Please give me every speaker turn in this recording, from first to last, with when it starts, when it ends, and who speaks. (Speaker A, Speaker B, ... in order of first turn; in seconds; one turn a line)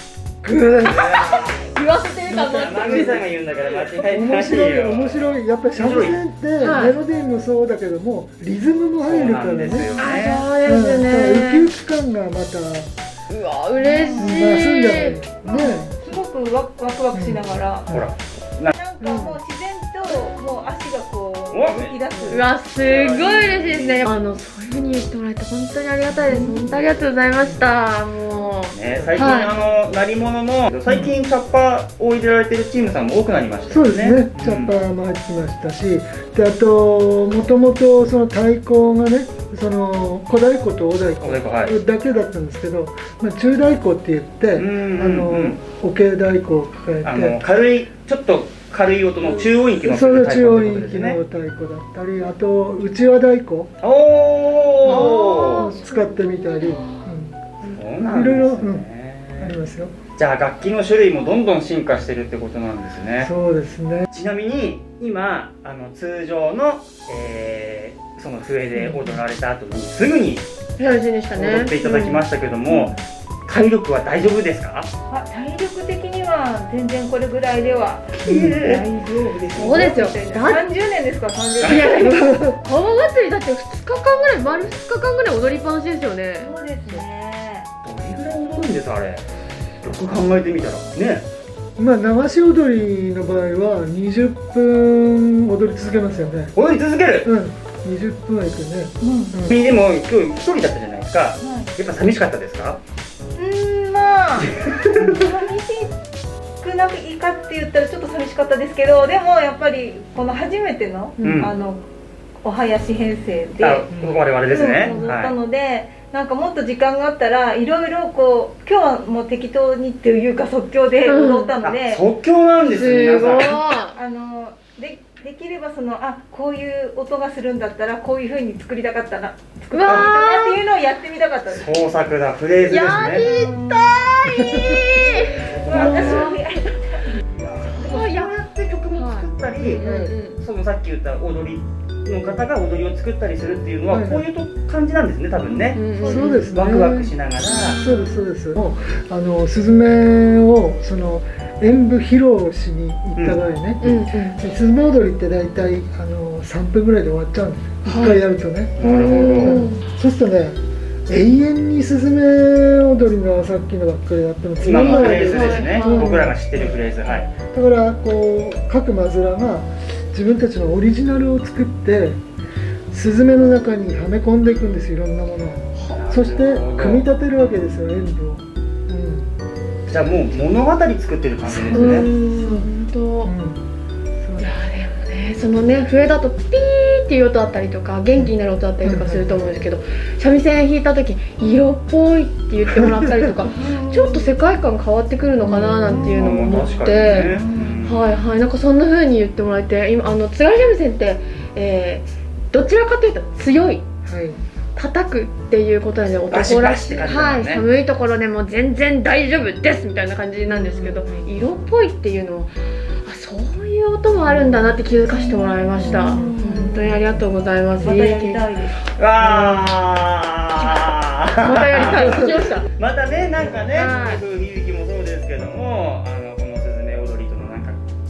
Speaker A: 0.4-3.2
Speaker B: 0.5-1.0
Speaker C: 0.8-1.7
Speaker B: 2.3-3.3
Speaker C: 2.4-6.2
Speaker B: 3.9-9.9
Speaker A: 6.6-7.0
Speaker C: 9.0-10.5
Speaker A: 10.0-11.7
Speaker B: 10.6-12.9
Speaker A: 13.3-15.6
Speaker D: 13.8-14.4
Speaker B: 14.2-15.9
Speaker D: 15.5-17.9
Speaker B: 17.1-18.1
Speaker C: 17.9-18.7
Speaker D: 18.7-22.5
Speaker A: 19.0-19.4
Speaker C: 21.5-24.1
Speaker A: 22.3-29.5
Speaker B: 26.1-26.8
Speaker C: 28.7-34.8
Speaker B: 28.9-29.2
Speaker B: 30.9-31.1
Speaker B: 33.7-47.4
Speaker C: 41.2-41.8
Speaker C: 44.5-45.6
Speaker C: 47.0-51.2
Speaker B: 49.3-53.7
Speaker C: 53.8-55.8
Speaker B: 54.8-59.9
Speaker A: 54.8-57.0
Speaker C: 57.6-59.6
Speaker C: 60.1-63.3
Speaker B: 63.2-64.1
Speaker C: 64.1-70.5
Speaker B: 68.7-69.2
Speaker A: 70.8-72.2
Speaker C: 71.3-74.9
Speaker B: 72.7-73.0
Speaker D: 75.1-82.4
Speaker C: 78.2-78.8
Speaker B: 78.2-78.7
Speaker A: 79.5-80.2
Speaker B: 80.3-80.7
Speaker A: 81.6-86.5
Speaker D: 86.4-87.7
Speaker C: 87.8-89.2
Speaker C: 89.8-91.3
Speaker B: 91.8-96.5
Speaker C: 96.5-97.3
Speaker B: 97.2-99.6
Speaker D: 99.0-99.3
Speaker C: 99.5-102.8
Speaker D: 101.4-101.7
Speaker D: 103.3-105.9
Speaker C: 104.6-105.0
Speaker B: 105.0-105.3
Speaker D: 106.6-111.8
Speaker C: 111.2-111.5
Speaker D: 112.4-113.9
Speaker C: 113.6-115.3
Speaker B: 113.9-114.2
Speaker D: 114.4-122.0
Speaker B: 114.8-115.2
Speaker A: 121.0-121.5
Speaker C: 121.6-123.6
Speaker A: 122.6-124.0
Speaker D: 123.9-131.9
Speaker A: 129.7-130.6
Speaker C: 131.5-133.3
Speaker A: 132.6-136.4
Speaker D: 133.2-133.9
Speaker B: 134.4-134.8
Speaker D: 134.9-137.2
Speaker C: 135.4-136.3
Speaker C: 137.4-145.8
Speaker A: 137.6-138.3
Speaker A: 138.9-140.4
Speaker B: 139.6-140.2
Speaker B: 143.9-144.2
Speaker A: 145.7-148.3
Speaker D: 146.0-146.5
Speaker B: 146.0-147.1
Speaker C: 146.4-147.8
Speaker B: 147.7-172.2
Speaker A: 153.8-154.4
Speaker A: 157.8-158.2
Speaker C: 158.8-159.7
Speaker A: 158.8-159.8
Speaker C: 164.6-167.3
Speaker A: 164.7-166.2
Speaker B: 172.9-179.3
Speaker C: 175.9-177.1
Speaker C: 179.9-182.1
Speaker B: 181.4-182.7
Speaker A: 181.7-183.3
Speaker B: 183.2-183.6
Speaker B: 184.2-184.5
Speaker A: 184.4-203.8
Speaker B: 188.2-189.5
Speaker D: 193.5-194.4
Speaker B: 195.4-196.7
Speaker D: 195.9-196.6
Speaker C: 196.1-198.0
Speaker D: 197.1-197.8
Speaker B: 204.0-204.4
Speaker A: 204.7-212.5
Speaker C: 206.3-207.6
Speaker D: 210.7-211.1
Speaker A: 213.0-218.4
Speaker D: 214.9-217.0
Speaker B: 215.8-216.4
Speaker D: 217.8-218.8
Speaker C: 218.9-227.8
Speaker A: 219.2-219.7
Speaker A: 221.4-222.7
Speaker B: 221.8-222.1
Speaker A: 223.7-224.2